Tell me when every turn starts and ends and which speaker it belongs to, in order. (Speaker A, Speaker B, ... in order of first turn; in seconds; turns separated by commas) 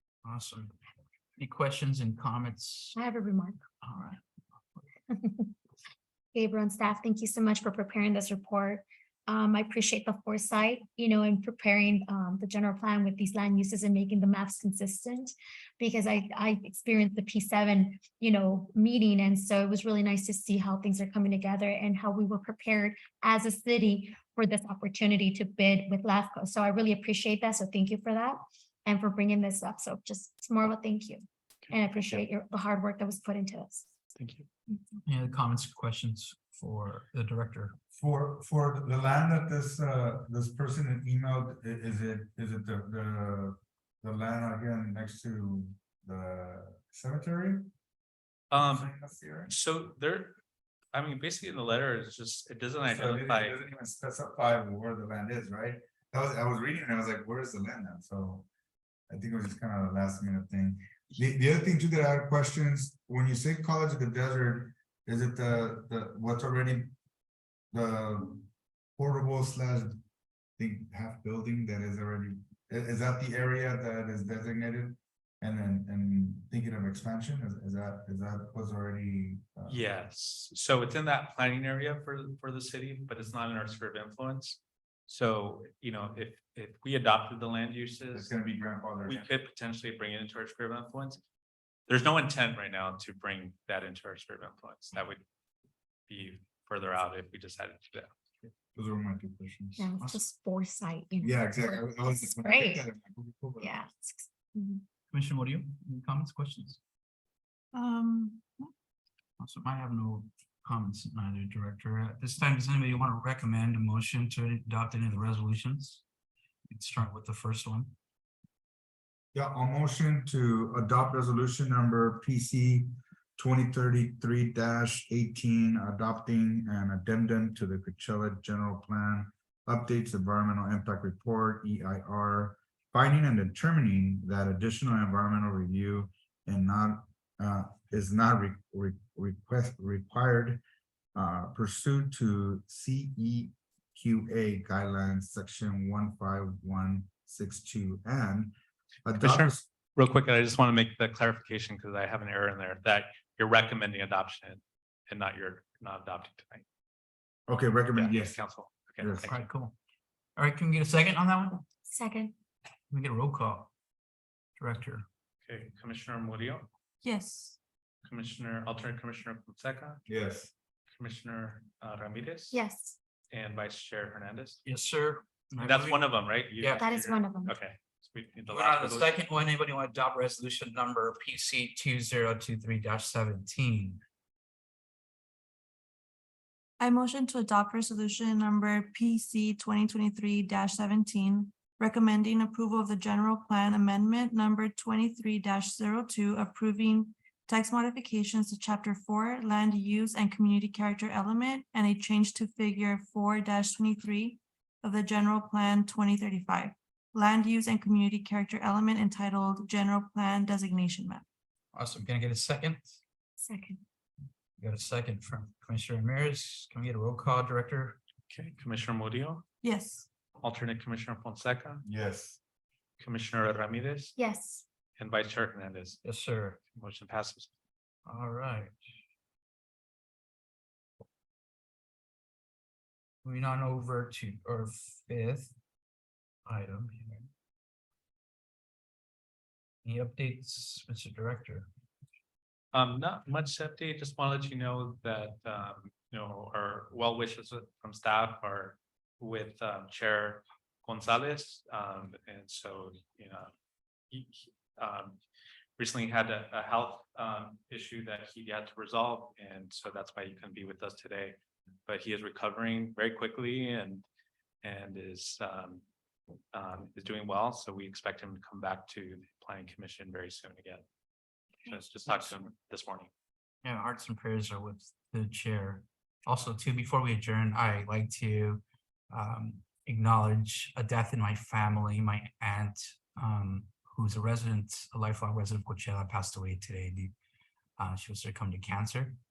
Speaker A: 0.2-0.7, Speaker A: 1.4-3.0, Speaker B: 3.0-3.6, Speaker A: 3.8-4.2, Speaker B: 5.1-5.5, Speaker B: 6.3-33.9, Speaker C: 31.7-32.2, Speaker C: 34.2-34.5, Speaker A: 35.1-37.8, Speaker D: 37.9-47.7, Speaker C: 48.5-48.9, Speaker D: 48.5-49.5, Speaker C: 49.5-50.4, Speaker C: 50.9-53.6, Speaker D: 52.9-58.5, Speaker D: 59.1-66.9, Speaker D: 67.7-70.0, Speaker D: 70.6-79.8, Speaker C: 79.7-88.3, Speaker D: 88.1-89.3, Speaker C: 89.1-91.2, Speaker C: 91.9-95.2, Speaker C: 96.1-98.1, Speaker D: 98.8-99.9, Speaker B: 99.8-102.8, Speaker D: 101.2-103.7, Speaker B: 103.6-104.8, Speaker A: 105.1-106.8, Speaker E: 107.7-108.7, Speaker A: 109.4-116.0, Speaker A: 116.7-117.9, Speaker D: 119.3-140.6, Speaker D: 141.2-148.5, Speaker D: 149.1-149.7, Speaker C: 149.2-156.7, Speaker D: 157.5-158.4, Speaker C: 157.9-159.4, Speaker D: 159.0-159.3, Speaker A: 159.3-159.7, Speaker A: 160.4-161.6, Speaker B: 161.9-162.3, Speaker A: 162.9-163.7, Speaker A: 164.6-165.1, Speaker C: 165.4-166.7, Speaker E: 167.0-167.6, Speaker C: 168.1-170.1, Speaker D: 170.1-170.5, Speaker C: 171.0-172.6, Speaker B: 172.5-173.0, Speaker C: 173.3-174.6, Speaker A: 174.7-176.0, Speaker C: 175.6-179.2, Speaker A: 176.6-176.8, Speaker B: 176.8-177.6, Speaker A: 178.5-184.0, Speaker E: 186.8-211.2, Speaker A: 211.7-213.0, Speaker B: 213.4-213.8, Speaker A: 214.6-218.0, Speaker C: 218.3-219.4, Speaker E: 219.6-220.1, Speaker C: 220.4-221.8, Speaker D: 221.8-222.4, Speaker C: 223.0-224.2, Speaker B: 224.2-224.7, Speaker C: 225.0-226.0, Speaker A: 226.0-226.6, Speaker C: 226.7-227.5, Speaker A: 228.1-228.7, Speaker A: 233.2-235.6, Speaker A: 236.5-237.3, Speaker A: 239.8-241.7, Speaker C: 242.7-253.5, Speaker C: 254.1-255.2, Speaker C: 255.8-264.1, Speaker C: 264.6-265.8, Speaker C: 266.5-270.8, Speaker C: 271.7-273.1, Speaker A: 273.6-287.1, Speaker A: 287.8-289.2